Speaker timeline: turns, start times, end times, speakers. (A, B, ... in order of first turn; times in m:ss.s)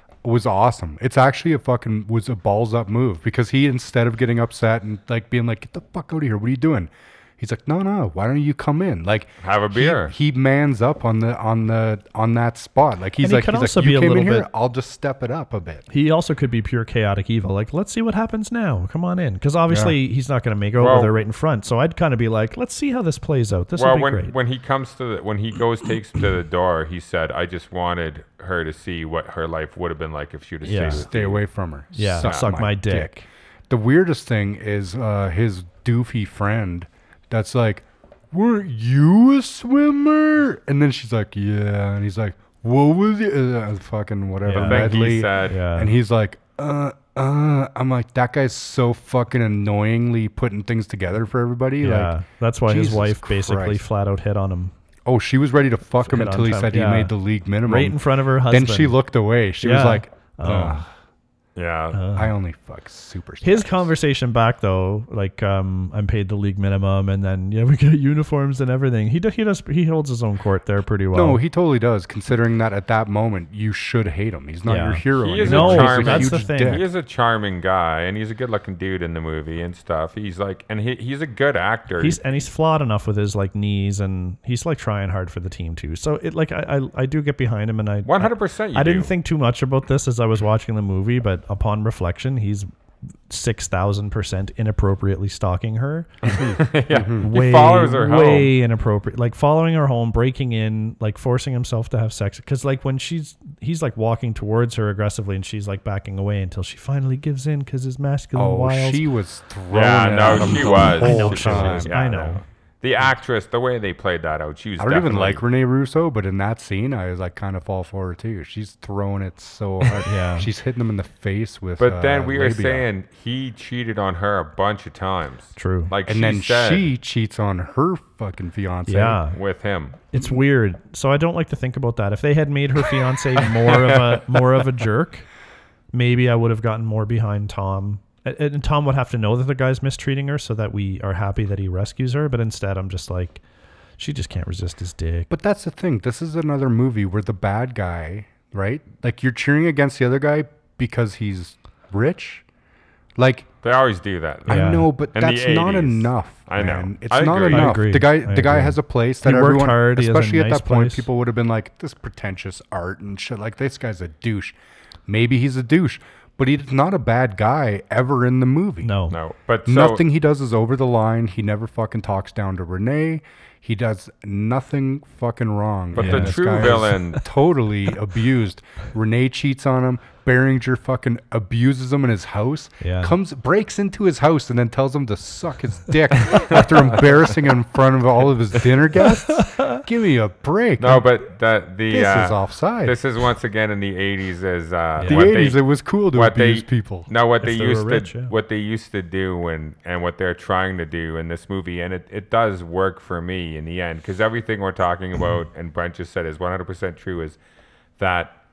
0:00.2-0:15.8 A
0:09.4-0:10.1 B
0:13.2-0:14.5 C
0:15.9-0:24.4 C
0:19.7-0:20.0 A
0:20.8-0:21.1 B
0:23.8-0:31.4 B
0:30.6-0:31.1 C
0:30.8-0:52.1 A
0:31.9-0:33.2 C
0:32.2-0:32.6 B
0:44.4-0:46.0 C
0:44.5-0:45.6 B
0:51.8-0:54.7 C
0:52.7-0:53.8 A
0:55.0-1:00.9 A
0:56.0-0:57.1 C
0:57.6-0:59.0 C
0:59.6-1:00.9 C
1:01.6-1:02.0 B
1:01.9-1:02.3 C
1:02.1-1:03.9 A
1:03.4-1:11.4 C
1:11.1-1:16.9 A
1:14.7-1:16.8 C
1:15.2-1:22.2 B
1:22.0-1:32.7 C
1:28.0-1:29.1 B
1:33.3-1:36.2 C
1:36.3-1:38.5 B
1:36.9-1:37.2 A
1:37.2-1:49.0 C
1:48.4-1:51.9 A
1:49.7-1:55.4 B
1:50.2-1:52.4 C
1:54.8-2:02.9 A
2:00.0-2:00.5 C
2:01.8-2:06.9 B
2:05.6-2:05.9 C
2:06.1-2:09.2 A
2:08.9-2:09.4 C
2:09.3-2:10.0 B
2:10.1-2:15.3 C
2:13.4-2:14.2 B
2:15.9-2:23.4 C
2:24.0-2:25.3 C
2:25.3-2:32.4 A
2:33.2-2:33.5 A
2:33.6-2:37.8 B
2:34.5-2:44.6 A
2:34.5-2:34.9 C
2:37.5-2:41.1 C
2:45.1-2:48.9 A
2:48.8-2:49.2 C
2:49.1-2:50.0 B
2:49.7-3:11.1 A
2:55.9-2:57.2 B
2:56.0-2:57.2 C
3:02.8-3:03.2 C
3:09.3-3:09.8 C
3:10.8-3:27.4 B
3:11.9-3:13.0 A
3:15.0-3:15.4 C
3:15.1-3:17.1 A
3:17.4-3:18.3 C
3:28.0-3:28.4 B